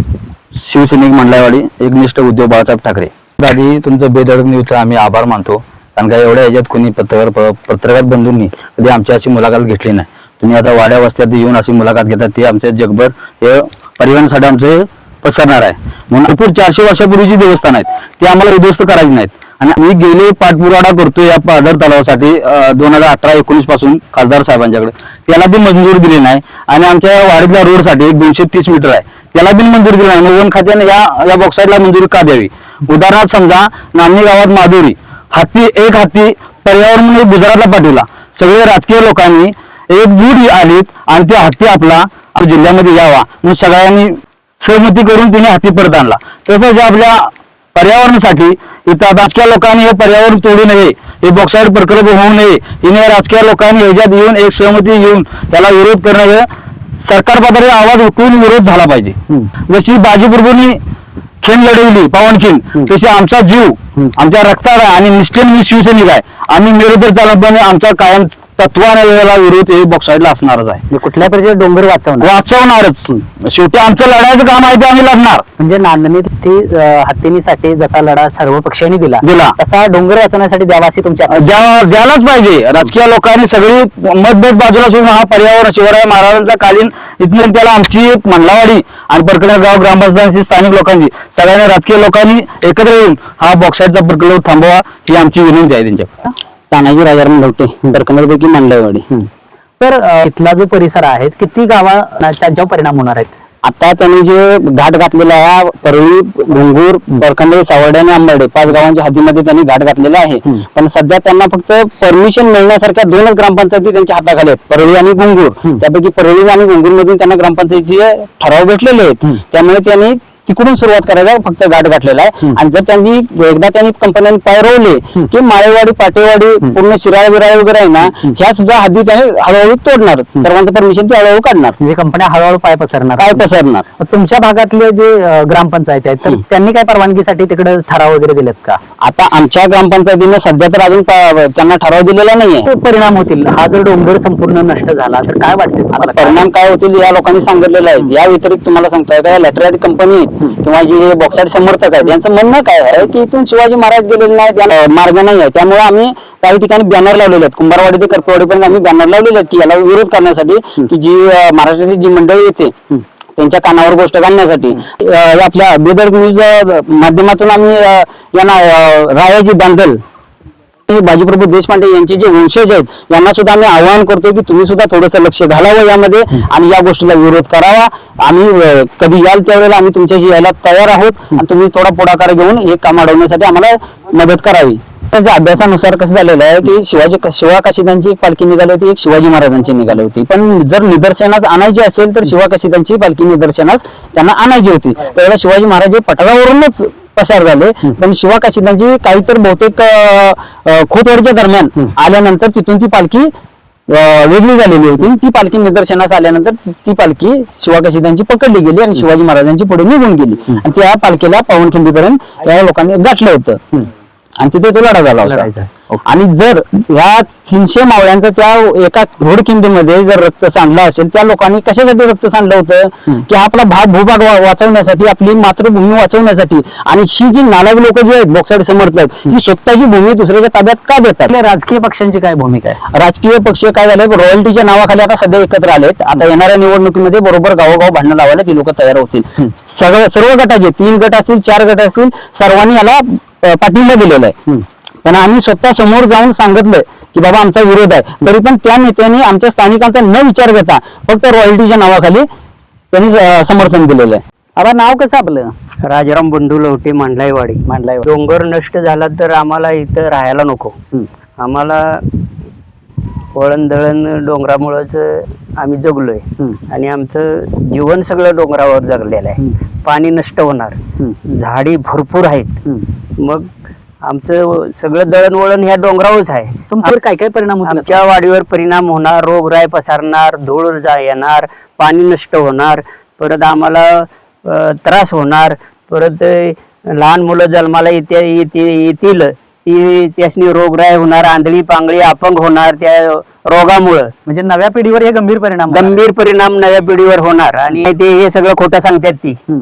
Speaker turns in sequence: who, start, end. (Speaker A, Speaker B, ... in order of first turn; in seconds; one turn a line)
Speaker A: 0.6-56.5
Speaker A: 57.0-60.8
Speaker A: 61.4-70.8
Speaker B: 70.9-72.3
Speaker A: 72.2-75.4
Speaker B: 75.6-81.5
Speaker A: 79.2-79.6
Speaker A: 81.3-99.3
Speaker B: 99.8-103.3
Speaker A: 103.6-131.8
Speaker B: 131.8-133.3
Speaker A: 133.2-133.8
Speaker B: 134.0-138.8
Speaker A: 139.0-142.7
Speaker B: 142.7-146.4
Speaker A: 145.9-170.0
Speaker A: 170.9-203.3
Speaker A: 203.9-215.5
Speaker A: 216.0-231.3
Speaker B: 231.3-232.8
Speaker A: 232.9-252.3
Speaker A: 252.9-254.2
Speaker B: 254.6-255.5
Speaker C: 255.8-260.8
Speaker B: 257.7-258.1
Speaker C: 261.4-262.1
Speaker C: 263.3-273.5
Speaker C: 274.0-276.7
Speaker B: 276.7-278.0
Speaker C: 277.6-294.1
Speaker B: 294.3-296.0
Speaker C: 295.7-299.4